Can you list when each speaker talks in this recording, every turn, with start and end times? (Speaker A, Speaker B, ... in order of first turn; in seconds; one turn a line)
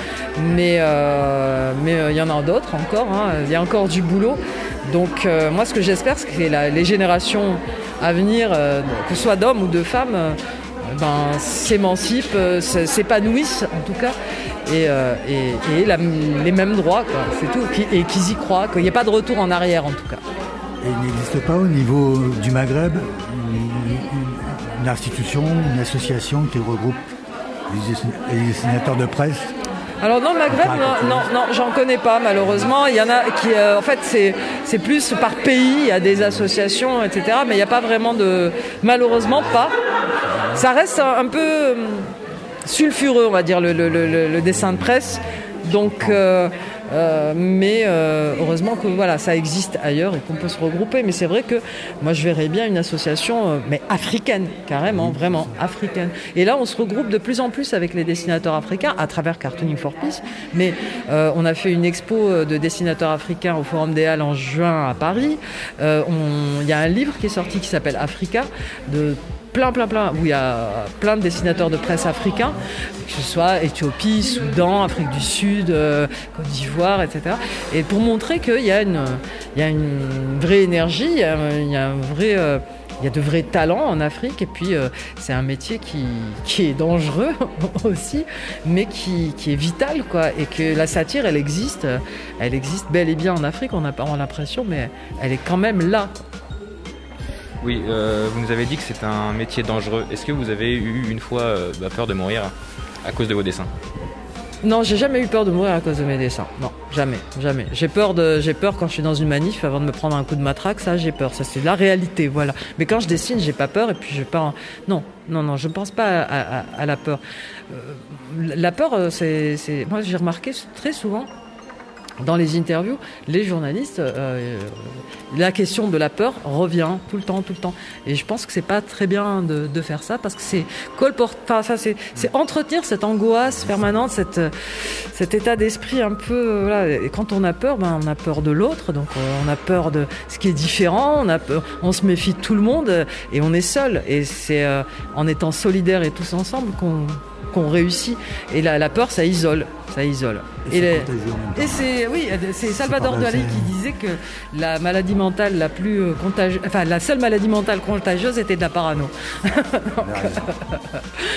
Speaker A: 0.4-14.1
Speaker A: 14.7-20.2
Speaker B: 20.8-27.1
Speaker B: 27.7-29.6
Speaker A: 30.0-39.7
Speaker B: 30.5-31.3
Speaker B: 40.3-40.6
Speaker A: 40.5-42.1
Speaker A: 42.6-96.1
Speaker B: 45.8-46.2
Speaker B: 54.9-55.6
Speaker C: 97.6-103.7
Speaker A: 104.6-121.3
Speaker A: 122.2-161.0
Speaker B: 133.5-133.9
Speaker B: 150.7-151.9
Speaker B: 152.7-153.7
Speaker B: 160.0-160.5